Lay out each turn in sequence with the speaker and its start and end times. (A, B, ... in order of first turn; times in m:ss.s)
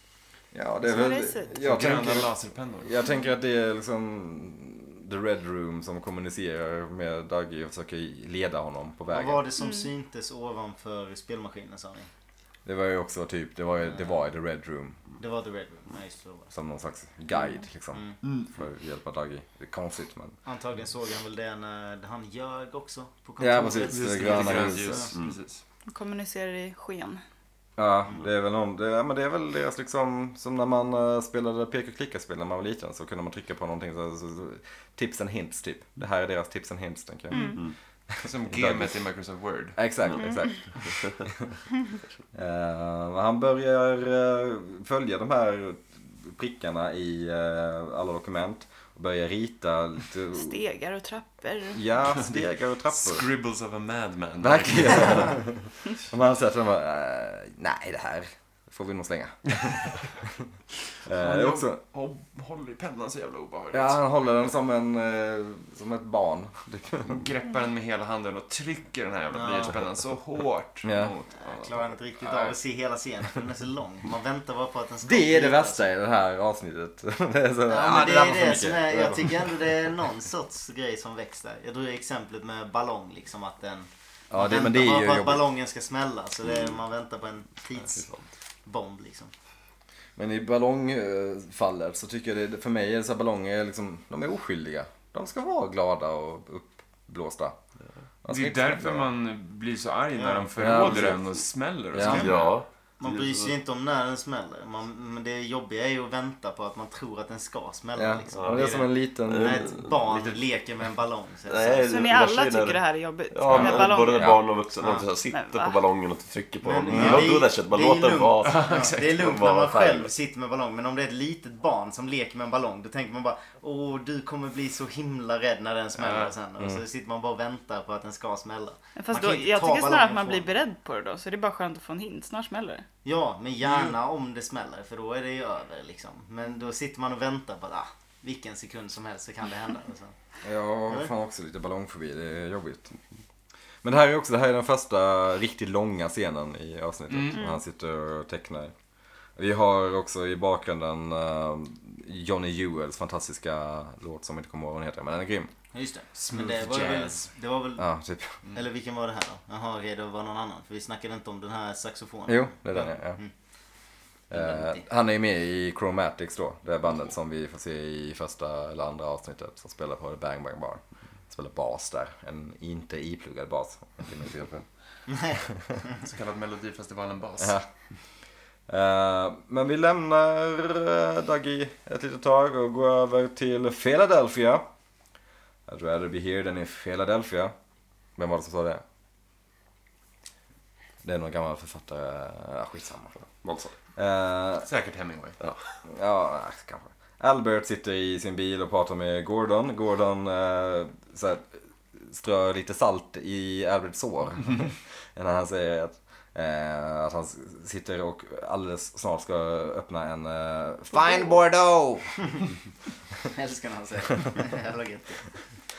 0:00.5-0:09.4 A
0:00.8-0:01.5 B
0:01.6-0:02.9 C
0:09.1-0:12.1 D
0:09.6-0:09.9 B
0:12.6-0:15.0 A
0:15.2-0:16.5 D
0:16.5-0:20.4 A
0:18.2-0:18.5 C
0:20.4-0:25.1 D
0:23.4-0:25.1 A
0:23.8-0:25.6 C
0:25.9-0:27.2 B
0:27.8-0:39.0 A
0:37.3-0:37.6 B
0:38.2-0:39.8 C
0:39.8-0:41.5 A
0:40.2-0:40.6 B
0:40.8-0:41.1 E
0:42.3-0:50.6 A
0:50.3-0:51.8 B
0:51.7-0:53.2 A
0:52.2-0:55.4 C
0:54.4-1:00.4 A
1:01.0-1:01.8 A
1:01.1-1:04.0 C
1:03.7-1:07.2 A
1:07.0-1:11.8 C
1:09.3-1:09.8 D
1:10.8-1:11.1 A
1:11.4-1:15.9 D
1:15.0-1:19.9 A
1:17.7-1:28.1 D
1:24.3-1:25.5 A
1:27.9-1:28.3 E
1:28.6-1:29.3 D
1:30.2-1:37.6 A
1:38.2-1:39.1 A
1:38.3-1:42.6 C
1:40.1-1:40.9 D
1:40.6-1:41.2 A
1:41.9-1:42.3 A
1:42.0-1:43.5 E
1:43.0-1:51.9 D
1:48.0-1:49.8 A
1:48.3-1:50.3 E
1:51.4-2:00.1 E
1:51.8-1:54.5 B
1:53.5-1:54.4 A
1:54.8-1:55.0 D
1:55.3-1:55.8 B
1:56.6-2:10.5 D
1:56.9-1:57.3 A
1:58.4-1:59.2 C
2:06.0-2:06.3 C
2:09.0-2:12.8 B
2:13.0-2:20.1 D
2:20.4-2:23.0 A
2:23.8-2:28.7 A
2:27.1-2:27.4 C
2:27.3-2:27.6 B
2:29.4-2:35.5 A
2:35.7-2:37.8 D
2:36.3-2:37.3 C
2:37.8-2:38.4 A
2:38.4-2:43.3 D
2:42.3-2:43.2 A
2:44.3-2:44.8 D
2:44.3-2:54.6 A
2:55.1-2:55.4 D
2:55.4-2:55.8 A
2:56.0-2:57.6 C
2:57.4-2:57.6 A
2:58.7-3:04.6 A
3:05.7-3:07.5 A
3:08.2-3:08.8 A
3:11.0-3:13.1 A
3:13.4-3:13.7 E
3:14.0-3:14.7 A
3:14.6-3:15.4 C
3:15.8-3:32.2 A
3:33.3-3:35.2 D